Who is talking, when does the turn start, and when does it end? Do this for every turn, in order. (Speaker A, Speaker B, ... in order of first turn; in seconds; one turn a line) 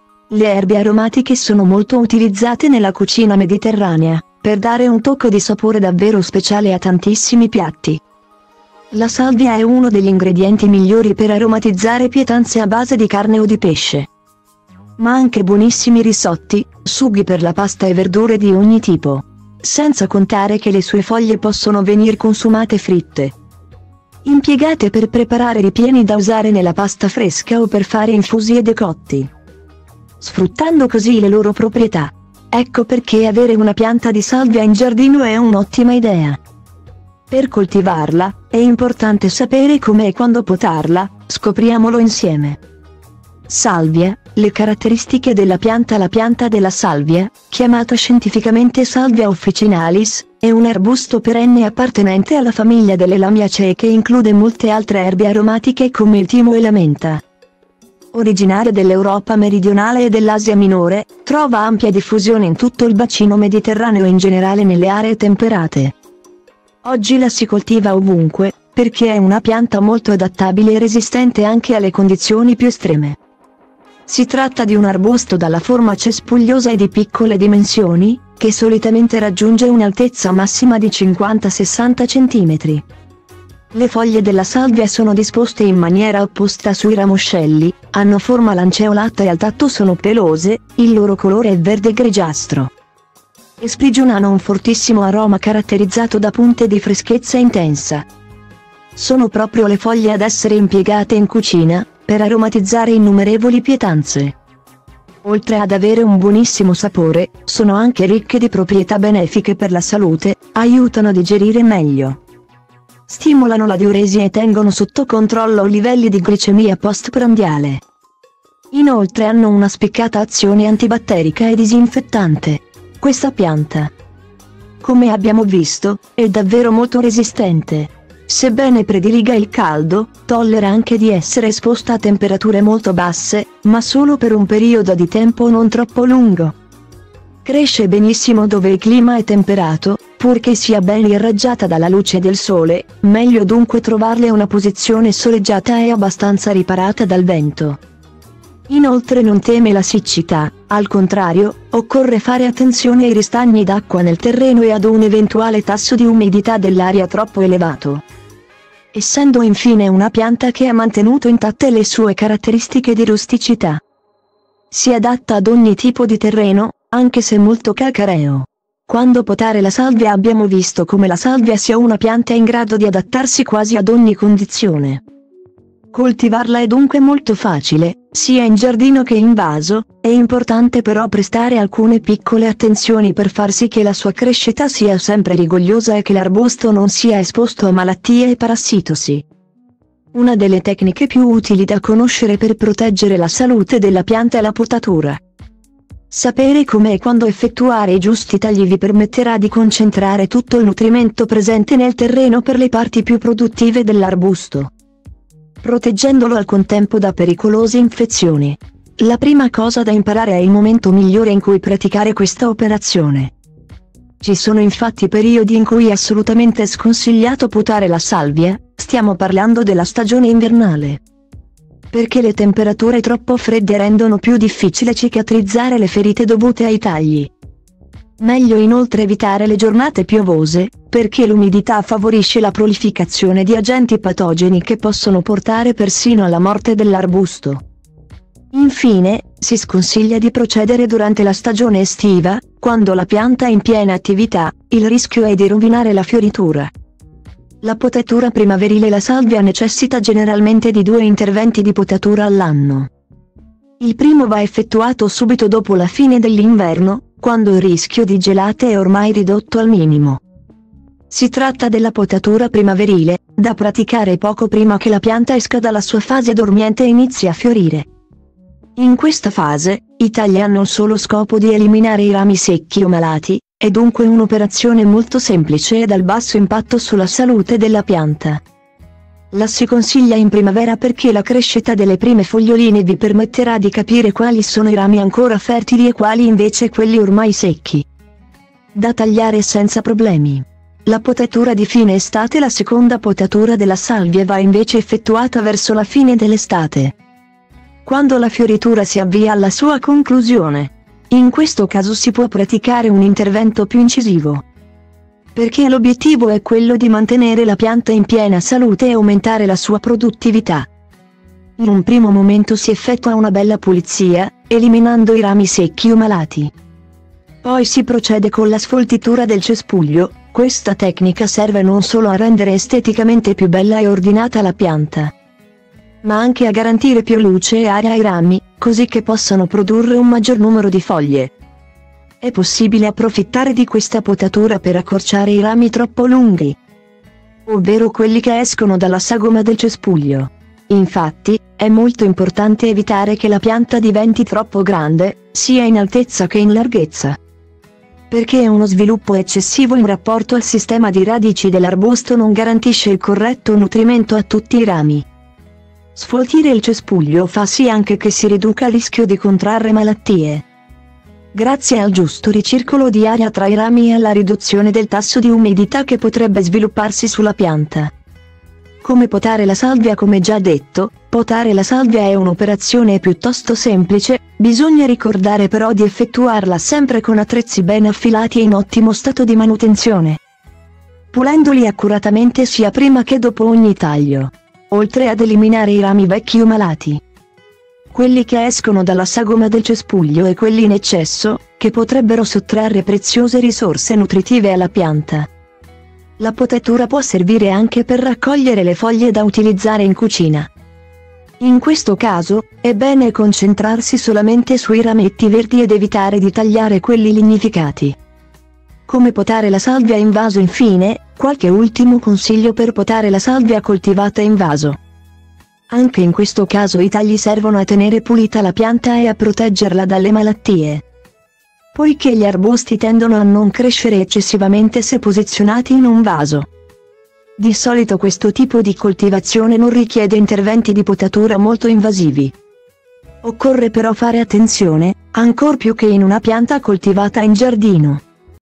Speaker A: 0.3-8.0
Speaker A: 8.9-14.1
Speaker A: 15.0-23.4
Speaker A: 24.2-29.3
Speaker A: 30.2-36.4
Speaker A: 37.3-42.6
Speaker A: 43.5-57.2
Speaker A: 58.1-65.9
Speaker A: 66.8-73.2
Speaker A: 74.1-82.8
Speaker A: 83.7-92.7
Speaker A: 93.6-98.1
Speaker A: 99.0-104.3
Speaker A: 105.2-112.2
Speaker A: 113.1-117.8
Speaker A: 118.7-123.9
Speaker A: 124.8-136.6
Speaker A: 137.4-147.8
Speaker A: 148.7-158.0
Speaker A: 158.9-163.8
Speaker A: 164.7-175.0
Speaker A: 175.9-189.2
Speaker A: 190.1-195.2
Speaker A: 196.1-204.7
Speaker A: 205.6-213.3
Speaker A: 214.2-221.0
Speaker A: 221.9-227.3
Speaker A: 228.2-237.6
Speaker A: 238.5-246.7
Speaker A: 247.6-252.9
Speaker A: 253.8-260.2
Speaker A: 261.1-267.9
Speaker A: 268.8-278.4
Speaker A: 279.3-287.9
Speaker A: 288.7-296.9
Speaker A: 297.9-304.4
Speaker A: 305.4-310.7
Speaker A: 311.6-316.5
Speaker A: 317.4-325.1
Speaker A: 326.0-331.3
Speaker A: 332.2-336.6
Speaker A: 337.5-347.2
Speaker A: 348.1-355.1
Speaker A: 355.9-360.4
Speaker A: 361.3-367.9
Speaker A: 368.8-380.2
Speaker A: 381.1-387.0
Speaker A: 387.9-395.3
Speaker A: 396.2-400.5
Speaker A: 401.4-408.0
Speaker A: 408.9-414.8
Speaker A: 415.7-420.8
Speaker A: 421.8-426.5
Speaker A: 427.4-432.3
Speaker A: 433.2-438.0